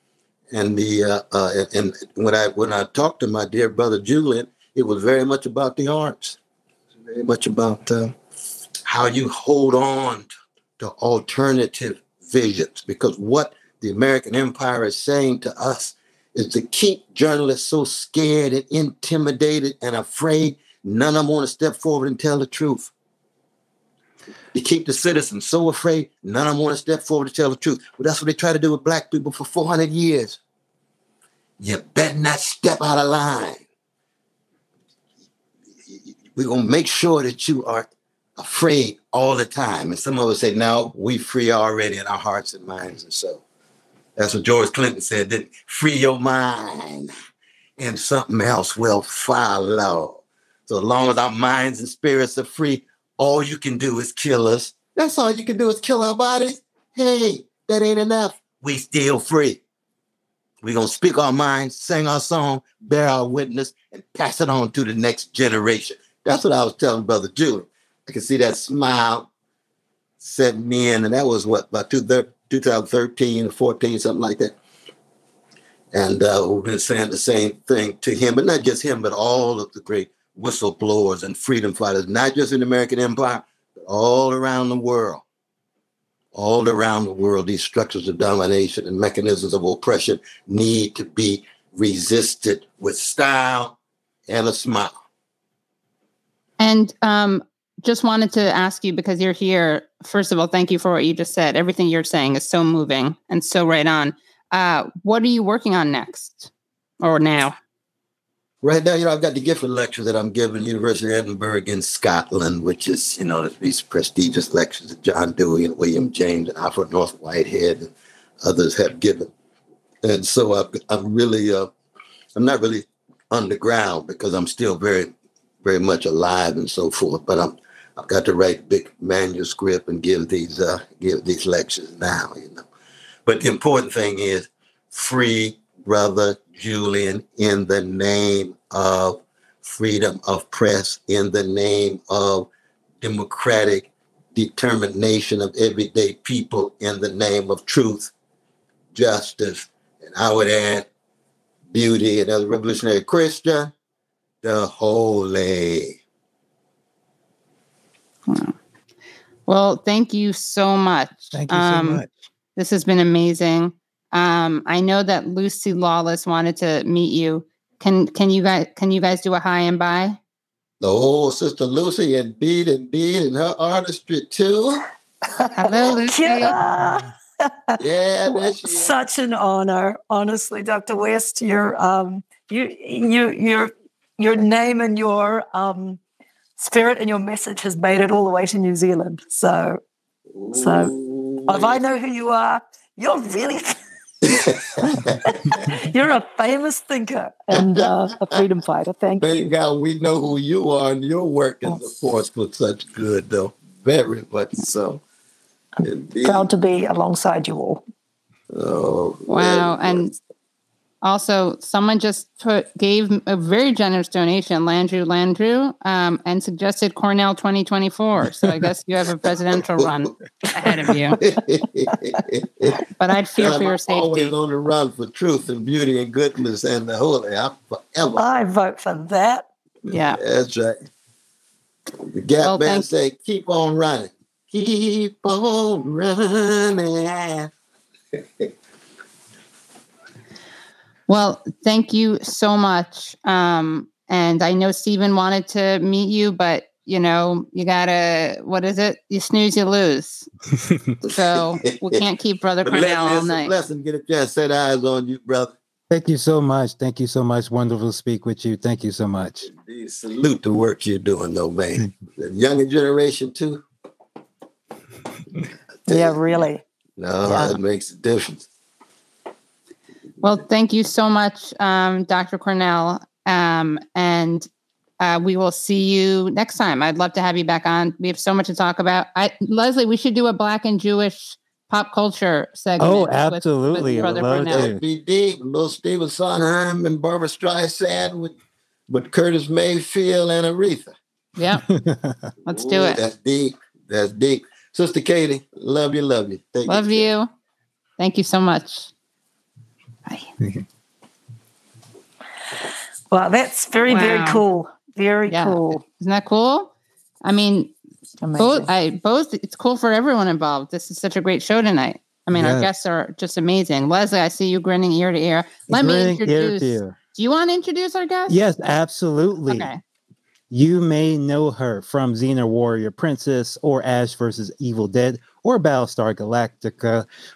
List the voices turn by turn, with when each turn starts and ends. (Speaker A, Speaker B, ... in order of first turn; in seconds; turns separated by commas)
Speaker A: 0.5-6.4, Speaker A: 7.1-8.1, Speaker A: 8.8-10.3, Speaker A: 10.8-22.9, Speaker A: 24.5-30.4, Speaker A: 31.6-33.6, Speaker A: 35.9-37.9, Speaker A: 38.4-43.4, Speaker A: 44.2-47.1, Speaker A: 47.8-59.6, Speaker A: 60.6-69.3, Speaker A: 70.2-74.5, Speaker A: 75.9-85.2, Speaker A: 86.3-93.8, Speaker A: 94.3-94.9, Speaker B: 96.6-107.6, Speaker A: 108.6-119.3, Speaker A: 120.0-121.7, Speaker A: 122.4-132.7, Speaker A: 133.3-142.5, Speaker A: 143.0-148.1, Speaker A: 148.9-150.9, Speaker A: 151.7-153.7, Speaker A: 154.4-156.0, Speaker B: 158.3-158.6, Speaker B: 159.5-162.0, Speaker C: 161.3-162.2, Speaker B: 162.6-170.2, Speaker A: 170.8-174.9, Speaker D: 175.4-177.8, Speaker B: 175.6-176.6, Speaker A: 177.8-179.0, Speaker D: 178.3-186.0, Speaker D: 186.6-189.8, Speaker A: 190.3-191.8, Speaker D: 190.5-190.9, Speaker D: 191.5-193.8, Speaker A: 194.3-195.2, Speaker D: 194.4-199.3, Speaker A: 197.5-197.9, Speaker A: 199.2-205.0, Speaker A: 205.8-206.5, Speaker D: 206.2-207.8, Speaker A: 208.5-210.1, Speaker B: 209.3-210.1, Speaker B: 211.0-221.2, Speaker A: 220.4-222.9, Speaker B: 223.0-224.1, Speaker A: 223.4-228.2, Speaker D: 228.2-229.5, Speaker A: 229.9-230.8, Speaker B: 229.9-230.2, Speaker A: 232.0-237.5, Speaker B: 232.4-232.8, Speaker B: 241.1-250.3, Speaker A: 251.0-252.0, Speaker B: 251.1-253.5, Speaker A: 252.7-255.5, Speaker C: 255.9-259.5, Speaker A: 259.5-263.6, Speaker A: 265.9-266.2, Speaker D: 265.9-266.6, Speaker A: 267.0-268.5, Speaker D: 267.2-267.6, Speaker B: 270.2-274.5, Speaker B: 275.0-284.7, Speaker C: 282.8-284.8, Speaker A: 283.8-288.3, Speaker A: 288.9-290.9, Speaker B: 291.4-291.6, Speaker C: 291.7-292.2, Speaker B: 292.4-293.0, Speaker A: 292.5-297.1, Speaker B: 296.7-297.3, Speaker B: 298.0-298.9, Speaker D: 303.1-305.8, Speaker B: 303.9-304.4, Speaker B: 305.3-306.7, Speaker B: 307.2-307.7, Speaker D: 308.2-308.7, Speaker B: 308.4-318.4, Speaker C: 312.3-312.7, Speaker C: 315.7-317.0, Speaker C: 318.3-319.7, Speaker B: 319.5-319.8, Speaker C: 320.5-327.1